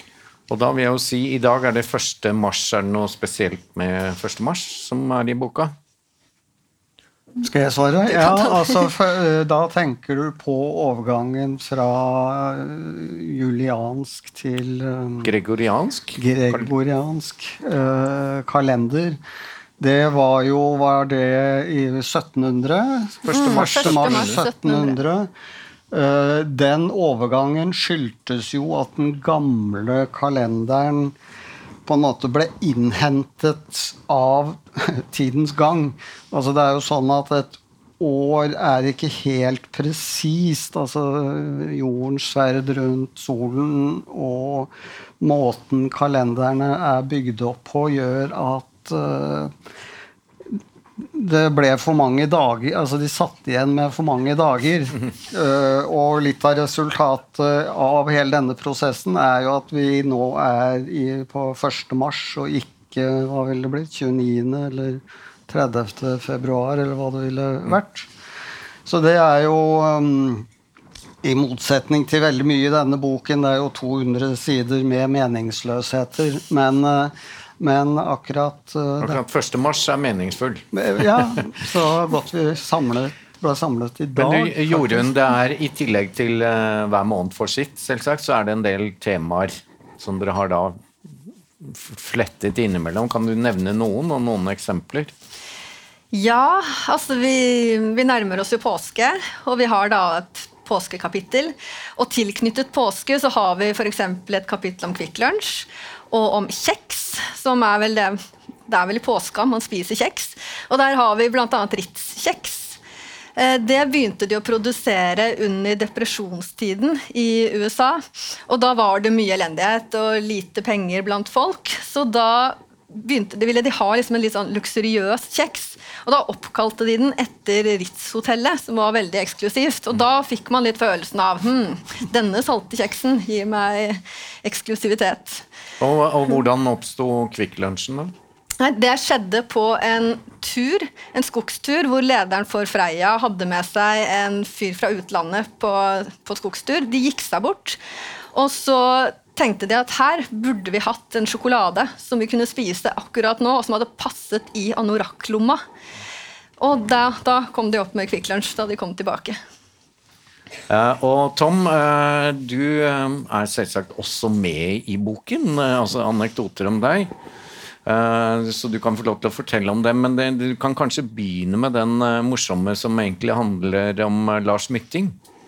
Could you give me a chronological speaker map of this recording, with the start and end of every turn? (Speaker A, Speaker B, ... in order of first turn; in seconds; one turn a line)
Speaker A: 0.5-5.8
Speaker B: 7.4-15.3
Speaker C: 8.2-8.6
Speaker A: 15.2-16.7
Speaker B: 16.2-19.2
Speaker B: 19.8-25.3
Speaker A: 23.2-24.4
Speaker C: 23.3-25.0
Speaker B: 25.9-31.2
Speaker B: 31.9-49.5
Speaker B: 50.5-68.1
Speaker B: 68.9-70.5
Speaker B: 71.2-79.2
Speaker A: 79.0-80.7
Speaker B: 80.7-85.1
Speaker A: 84.2-90.8
Speaker A: 91.6-95.1
Speaker C: 96.1-112.8
Speaker C: 113.4-135.4
Speaker A: 135.8-138.1
Speaker C: 138.6-147.8
Speaker C: 148.3-155.6
Speaker C: 156.6-159.4
Speaker A: 160.7-167.1
Speaker A: 167.9-175.2